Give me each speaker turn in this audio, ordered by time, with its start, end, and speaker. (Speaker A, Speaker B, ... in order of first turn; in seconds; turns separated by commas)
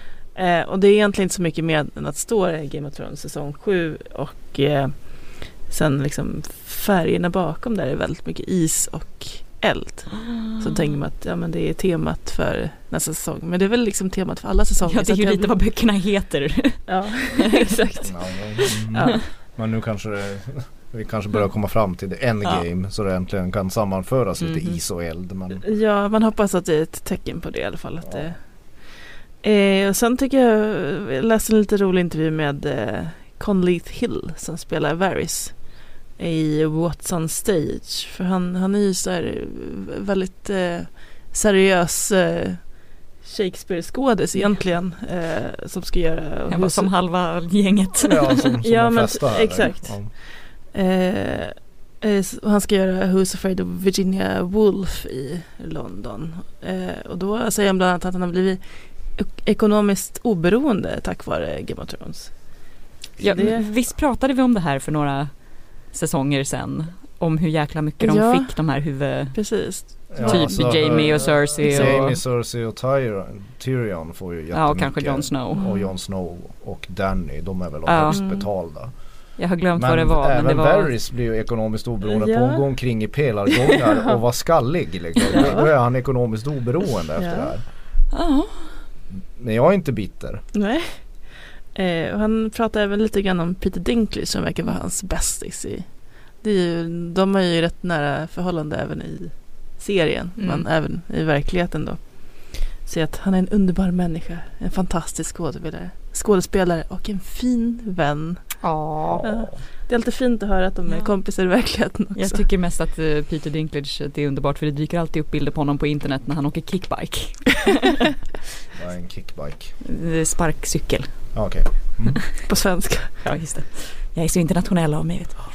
Speaker A: 0.3-15.5, Speaker B: 10.2-10.9, Speaker B: 14.9-16.9, Speaker A: 16.9-19.2, Speaker B: 17.6-17.9, Speaker C: 18.0-25.6, Speaker B: 18.6-19.1, Speaker B: 24.4-24.8, Speaker A: 25.6-35.6, Speaker A: 36.2-46.9, Speaker B: 46.5-48.4, Speaker C: 48.0-50.1, Speaker A: 48.6-63.7, Speaker B: 63.2-65.3, Speaker B: 65.9-69.4, Speaker A: 68.0-68.6, Speaker A: 69.3-72.0, Speaker C: 70.1-78.9, Speaker B: 70.2-72.2, Speaker B: 74.5-75.7, Speaker A: 75.5-75.8, Speaker B: 77.8-78.2, Speaker A: 78.1-78.5, Speaker B: 79.4-80.9, Speaker C: 79.8-87.6, Speaker A: 82.1-82.7, Speaker A: 83.7-84.2, Speaker A: 85.3-85.7, Speaker A: 87.2-87.5, Speaker B: 88.1-88.8, Speaker C: 89.3-90.4, Speaker A: 90.5-108.6, Speaker B: 100.4-100.7, Speaker B: 108.6-109.2, Speaker C: 109.1-109.6, Speaker A: 109.2-112.4, Speaker B: 112.1-118.0, Speaker C: 118.7-119.7, Speaker B: 119.8-121.3, Speaker C: 121.3-122.2, Speaker A: 122.5-123.2, Speaker B: 123.2-125.4